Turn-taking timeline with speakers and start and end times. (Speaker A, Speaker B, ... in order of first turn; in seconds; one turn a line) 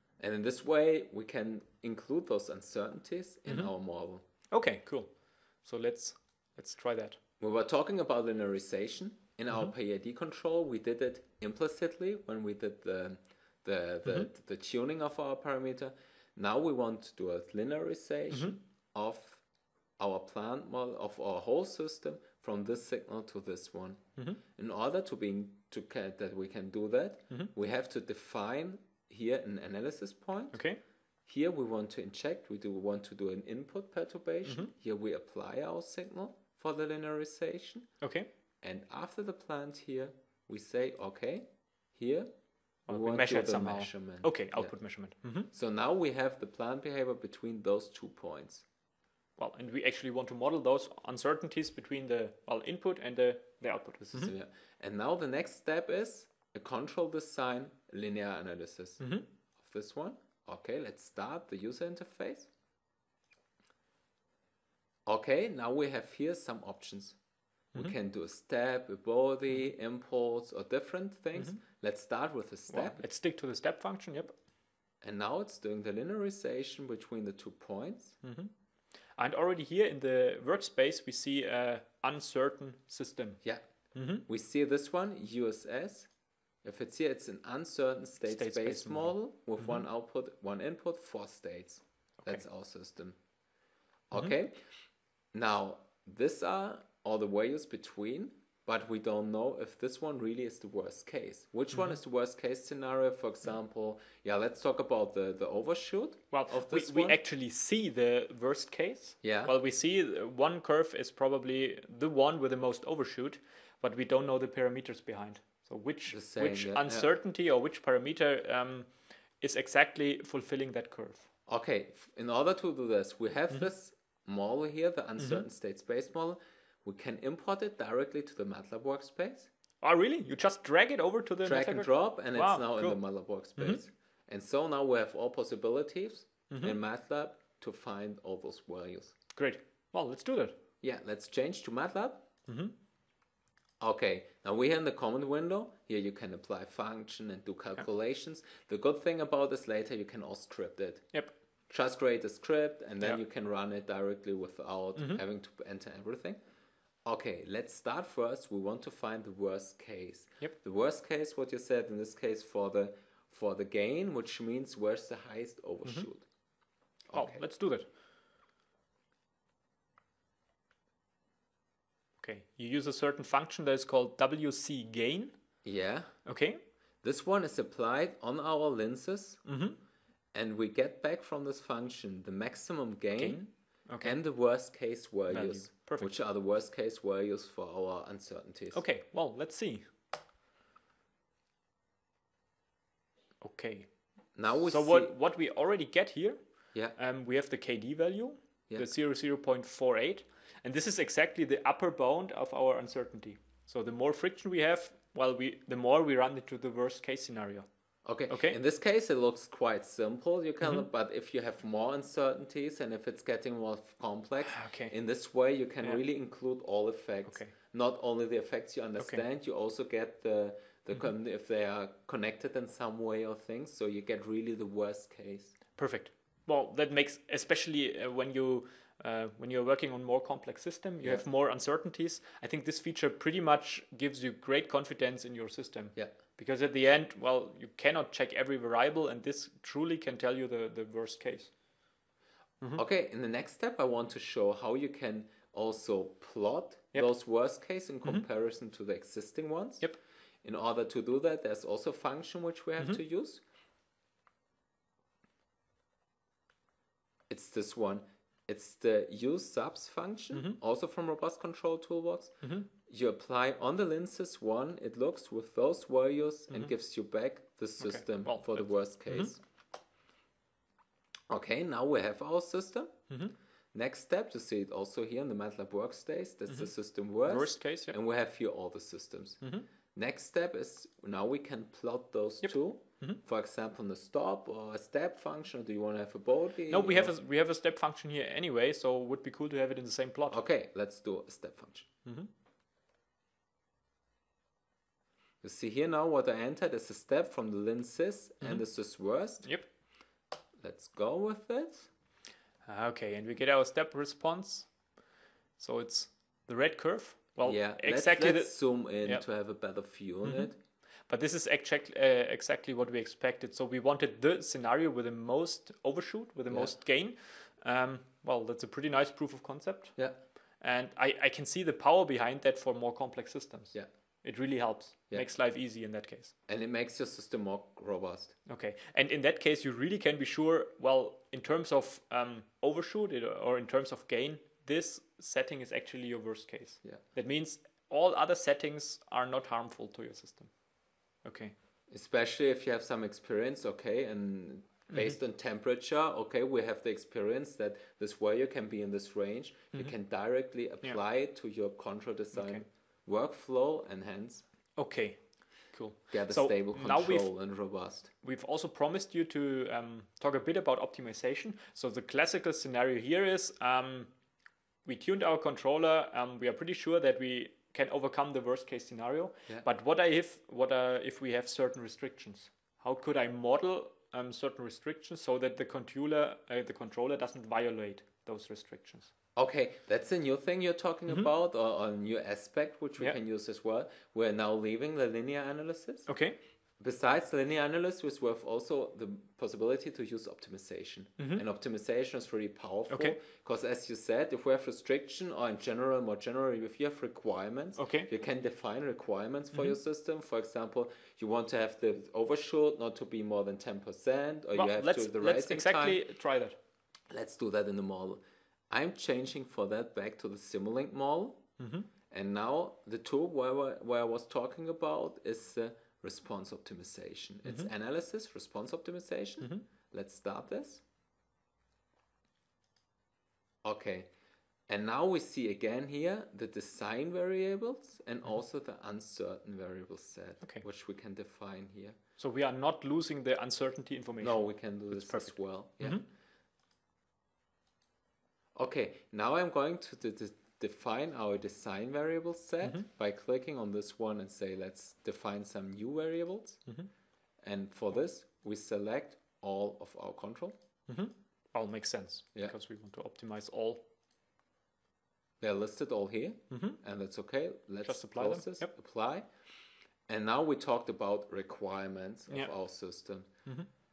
Speaker A: 0.2-4.2
Speaker B: 4.5-7.2
Speaker A: 7.4-19.4
Speaker A: 20.0-30.6
Speaker B: 30.5-30.8
Speaker A: 31.3-37.9
Speaker B: 38.0-38.3
Speaker A: 38.6-42.3
Speaker B: 42.9-45.5
Speaker A: 42.9-44.7
Speaker A: 45.5-48.6
Speaker B: 49.4-54.3
Speaker A: 54.0-59.0
Speaker B: 59.0-59.2
Speaker A: 59.6-62.5
Speaker A: 65.0-67.2
Speaker A: 67.7-73.0
Speaker B: 72.7-74.3
Speaker A: 75.0-78.2
Speaker B: 78.2-78.5
Speaker B: 79.2-83.4
Speaker B: 83.9-84.2
Speaker A: 84.3-86.1
Speaker A: 86.6-93.2
Speaker B: 88.2-89.8
Speaker A: 94.1-94.5
Speaker A: 95.3-107.2
Speaker B: 106.3-118.9
Speaker A: 109.2-109.5
Speaker A: 116.1-117.1
Speaker B: 119.4-121.3
Speaker A: 121.5-129.5
Speaker B: 129.8-133.0
Speaker A: 131.4-139.1
Speaker B: 136.5-136.8
Speaker B: 139.3-140.6
Speaker A: 140.8-142.2
Speaker B: 142.5-142.7
Speaker A: 143.8-151.1
Speaker A: 151.7-156.4
Speaker B: 154.9-155.2
Speaker A: 157.1-166.3
Speaker A: 167.1-167.4
Speaker B: 167.1-167.8
Speaker B: 172.2-175.3
Speaker A: 175.6-176.1
Speaker B: 176.2-176.6
Speaker A: 177.0-179.4
Speaker B: 179.4-179.8
Speaker A: 180.3-183.5
Speaker B: 183.2-184.2
Speaker A: 184.0-188.8
Speaker B: 185.3-186.1
Speaker B: 188.7-189.9
Speaker B: 193.4-193.9
Speaker A: 194.3-195.1
Speaker B: 194.6-196.4
Speaker B: 196.9-207.7
Speaker A: 208.0-225.6
Speaker B: 208.3-208.6
Speaker B: 214.5-214.9
Speaker B: 217.3-217.5
Speaker B: 225.8-241.5
Speaker A: 242.7-249.9
Speaker A: 250.4-253.4
Speaker A: 257.3-269.4
Speaker B: 262.4-262.7
Speaker B: 267.8-269.3
Speaker A: 271.3-273.0
Speaker B: 273.1-273.3
Speaker A: 273.7-279.4
Speaker B: 277.2-277.9
Speaker A: 279.9-287.1
Speaker B: 286.7-290.4
Speaker A: 290.3-291.9
Speaker A: 295.4-299.5
Speaker A: 300.6-301.9
Speaker B: 302.6-304.7
Speaker B: 305.6-309.2
Speaker A: 307.4-310.6
Speaker B: 311.1-320.0
Speaker B: 320.6-326.3
Speaker A: 326.5-328.3
Speaker B: 328.5-340.5
Speaker B: 341.2-341.5
Speaker A: 341.9-354.4
Speaker B: 352.3-352.6
Speaker B: 354.8-357.3
Speaker A: 356.1-358.1
Speaker B: 358.2-364.1
Speaker B: 364.8-379.1
Speaker A: 379.4-386.1
Speaker B: 386.1-386.4
Speaker A: 386.8-406.0
Speaker B: 391.2-391.4
Speaker B: 392.9-393.2
Speaker B: 397.8-398.1
Speaker B: 404.5-406.6
Speaker A: 407.1-411.4
Speaker B: 411.6-411.9
Speaker A: 412.1-420.8
Speaker A: 423.6-424.1
Speaker A: 424.7-432.0
Speaker B: 432.2-436.0
Speaker A: 434.2-436.0
Speaker A: 438.6-446.6
Speaker A: 447.4-450.6
Speaker B: 450.9-453.8
Speaker A: 455.4-459.2
Speaker B: 456.5-456.8
Speaker B: 457.8-458.7
Speaker A: 460.1-463.3